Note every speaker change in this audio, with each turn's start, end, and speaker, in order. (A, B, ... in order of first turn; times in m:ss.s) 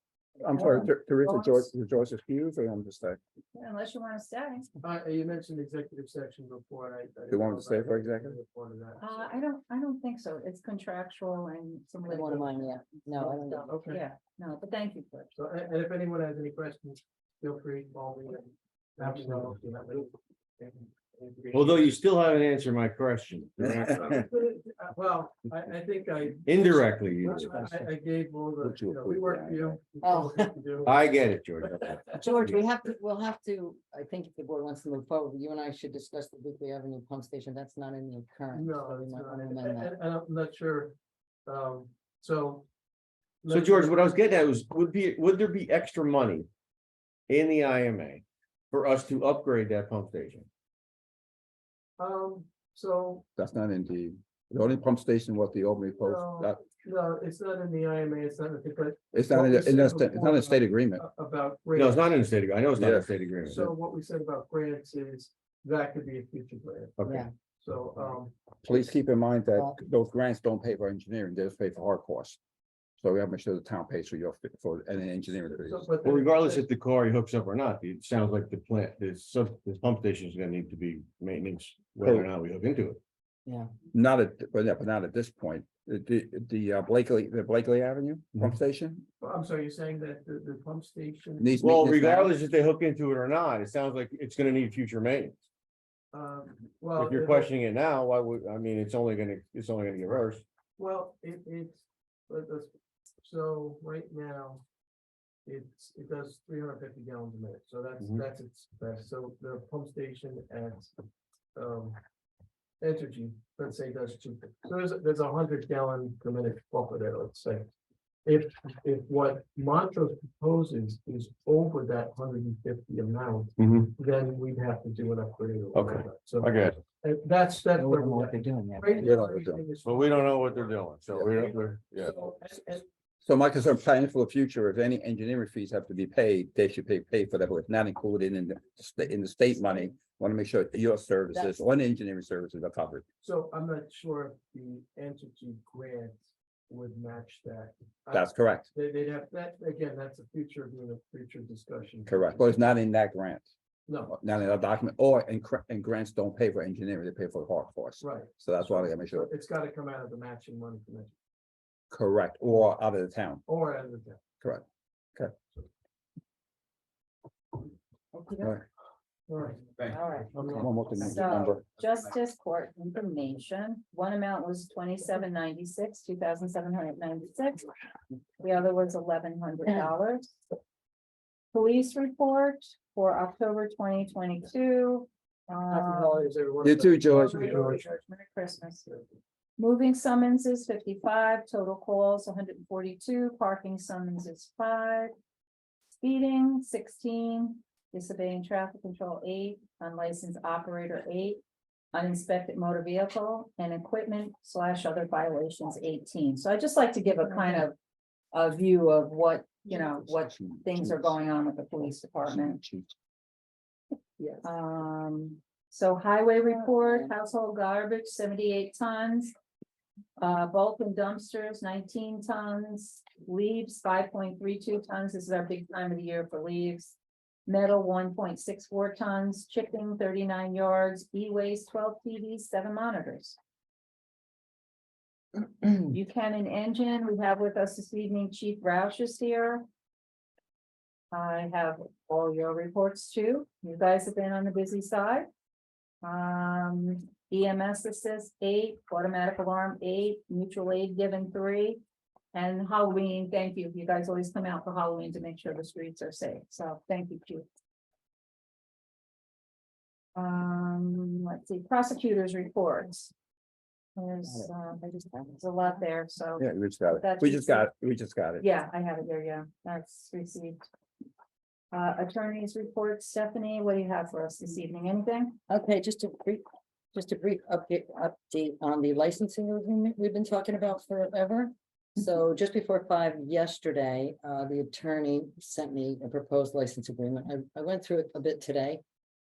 0:00.4-0:03.2 A
0:00.5-0:01.7 B
0:03.6-0:04.7 B
0:04.8-0:09.3 C
0:07.3-0:08.4 A
0:09.0-0:15.3 B
0:12.2-0:13.6 D
0:13.2-0:14.0 C
0:15.3-0:21.9 C
0:21.5-0:24.3 E
0:23.6-0:31.1 C
0:26.4-0:27.7 E
0:28.6-0:29.8 A
0:30.0-0:30.5 D
0:30.8-0:32.6 E
0:31.8-0:32.3 C
0:32.2-0:39.9 D
0:38.5-0:42.7 C
0:43.4-0:44.1 C
0:43.5-0:46.5 E
0:47.3-0:50.5 E
0:52.0-0:53.3 C
0:53.4-0:56.6 A
0:56.0-1:02.2 C
0:59.1-1:01.0 A
1:01.8-1:03.7 E
1:02.8-1:03.1 A
1:03.4-1:08.4 C
1:07.0-1:07.3 E
1:08.6-1:12.4 A
1:13.0-1:15.9 A
1:15.6-1:16.7 C
1:16.0-1:23.0 E
1:22.0-1:22.3 A
1:23.9-1:29.1 A
1:29.2-1:31.6 C
1:31.4-1:32.3 A
1:31.6-1:35.4 E
1:36.1-1:37.5 C
1:37.0-1:40.4 E
1:40.8-1:42.7 C
1:43.2-1:44.6 C
1:45.4-1:50.9 C
1:51.6-1:52.0 C
1:52.8-1:57.7 C
1:58.2-2:12.9 C
2:03.6-2:03.9 E
2:05.7-2:06.8 E
2:07.8-2:08.9 D
2:09.0-2:09.6 A
2:09.8-2:12.2 E
2:13.2-2:23.0 A
2:23.2-2:32.4 C
2:28.1-2:28.7 A
2:32.1-2:33.5 A
2:33.9-2:34.1 C
2:34.1-2:39.3 A
2:38.0-2:41.1 C
2:41.9-2:43.4 A
2:43.5-2:44.2 C
2:44.4-2:45.3 A
2:48.2-2:48.5 B
2:49.3-2:49.7 C
2:49.9-2:57.7 B
2:50.3-2:51.1 C
2:50.5-2:51.6 A
2:58.4-3:00.4 B
3:01.5-3:06.3 B
3:05.7-3:07.8 C
3:06.6-3:07.4 A
3:07.1-3:08.9 B
3:09.6-3:15.1 B
3:16.0-3:21.4 B
3:21.9-3:27.8 B
3:28.3-3:32.6 B
3:30.2-3:31.1 A
3:32.4-3:32.9 A
3:34.4-3:39.3 B
3:40.2-3:47.0 B
3:47.5-3:53.4 B
3:55.7-3:59.7 B
4:01.1-4:05.3 B
4:06.0-4:11.8 B
4:12.3-4:17.5 B
4:20.2-4:23.1 B
4:24.0-4:24.8 B
4:24.8-4:25.3 D
4:25.4-4:27.7 B
4:26.4-4:28.4 A
4:28.4-4:30.6 B
4:31.7-4:35.4 B
4:35.5-4:36.4 D
4:36.9-4:48.8 D